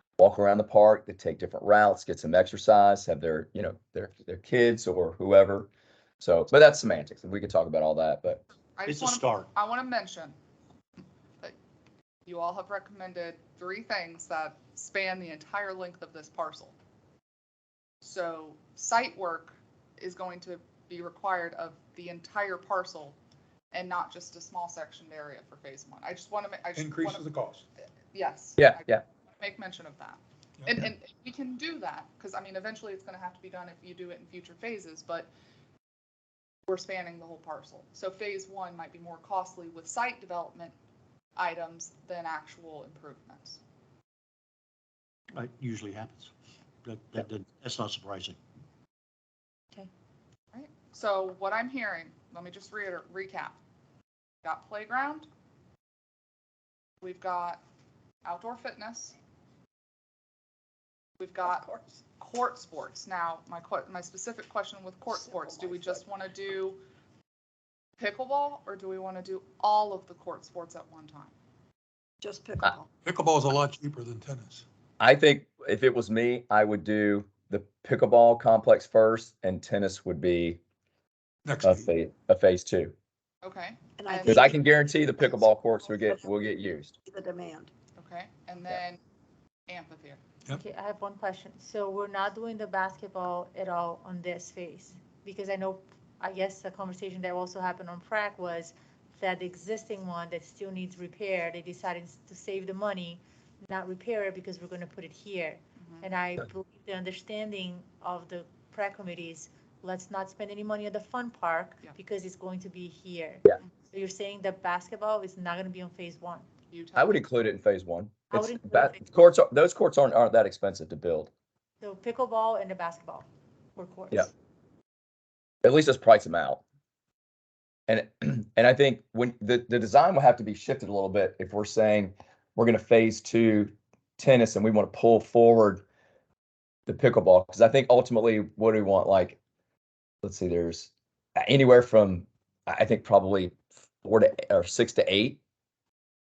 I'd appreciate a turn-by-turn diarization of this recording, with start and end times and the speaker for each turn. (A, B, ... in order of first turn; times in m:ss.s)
0:00.2-0:05.7 A
0:06.2-0:08.4 A
0:08.8-0:10.4 B
0:08.9-0:09.5 C
0:12.3-0:16.8 B
0:18.0-0:23.2 B
0:23.7-0:27.2 B
0:26.8-0:27.6 D
0:28.1-0:35.3 B
0:28.6-0:29.0 A
0:36.7-0:40.8 B
0:41.4-0:43.6 B
0:45.3-0:46.3 C
0:46.8-0:48.4 C
0:50.5-0:53.6 B
0:54.4-0:55.3 B
0:57.0-0:57.6 B
0:58.2-0:59.2 B
1:01.2-1:01.7 B
1:01.5-1:01.8 E
1:02.2-1:06.8 B
1:05.2-1:06.0 E
1:08.0-1:11.3 B
1:12.2-1:12.9 E
1:13.0-1:14.6 D
1:15.0-1:20.6 A
1:21.4-1:21.9 D
1:21.6-1:22.9 A
1:23.4-1:24.5 B
1:24.0-1:24.6 E
1:24.3-1:27.0 A
1:27.1-1:27.7 E
1:28.0-1:29.0 B
1:29.7-1:30.2 B
1:30.6-1:56.5 F
1:45.8-1:46.1 B
1:56.7-1:57.2 B
1:57.0-2:01.3 A
1:58.3-1:59.0 F
2:01.8-2:04.3 F
2:05.6-2:06.6 A
2:07.9-2:15.8 A
2:16.9-2:19.4 A
2:20.2-2:25.4 A